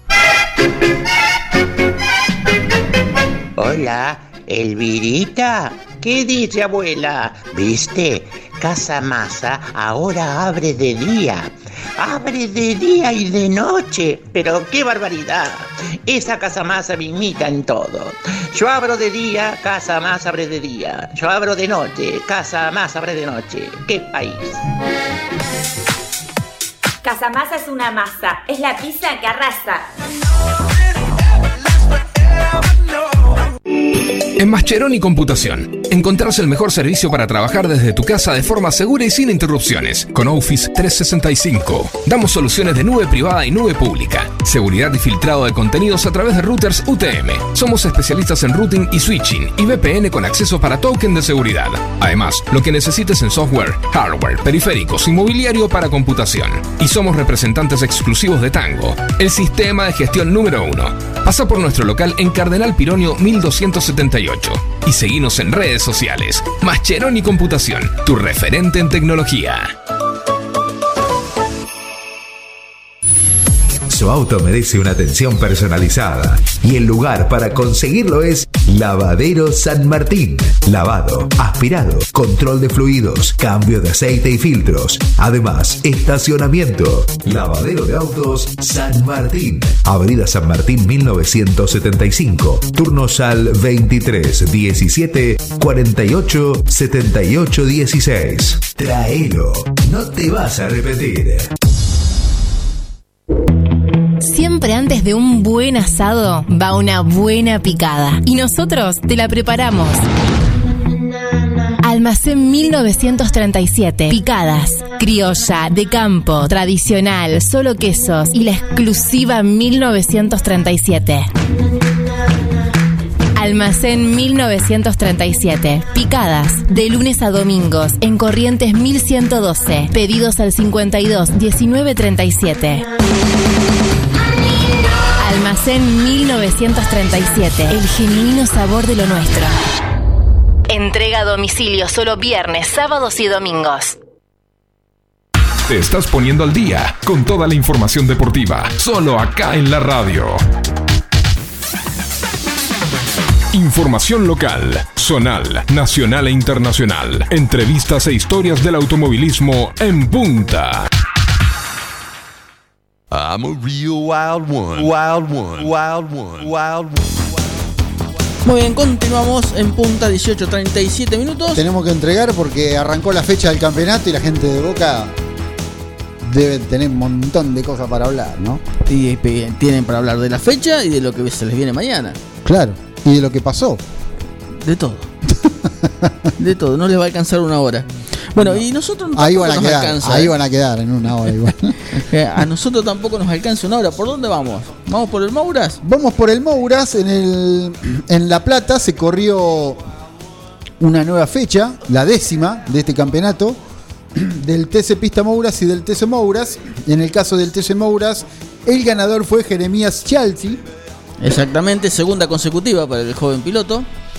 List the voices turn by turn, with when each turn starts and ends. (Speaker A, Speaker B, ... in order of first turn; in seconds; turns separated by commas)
Speaker A: 3.6-24.6, Speaker B: 27.0-29.8, Speaker C: 34.4-69.7, Speaker D: 73.9-101.5, Speaker E: 104.2-110.0, Speaker E: 111.8-121.3, Speaker E: 123.3-132.8, Speaker E: 135.2-139.6, Speaker E: 140.7-143.9, Speaker C: 145.7-150.4, Speaker C: 153.5-160.9, Speaker F: 163.2-166.5, Speaker G: 168.4-171.6, Speaker H: 171.5-175.1, Speaker H: 176.2-178.6, Speaker G: 178.9-182.2, Speaker H: 182.4-183.8, Speaker G: 184.6-185.1, Speaker H: 185.3-186.2, Speaker G: 186.4-190.3, Speaker H: 188.4-188.6, Speaker H: 189.2-191.7, Speaker G: 191.9-195.8, Speaker H: 195.8-199.8, Speaker H: 200.8-203.6, Speaker H: 204.1-210.6, Speaker G: 211.2-213.9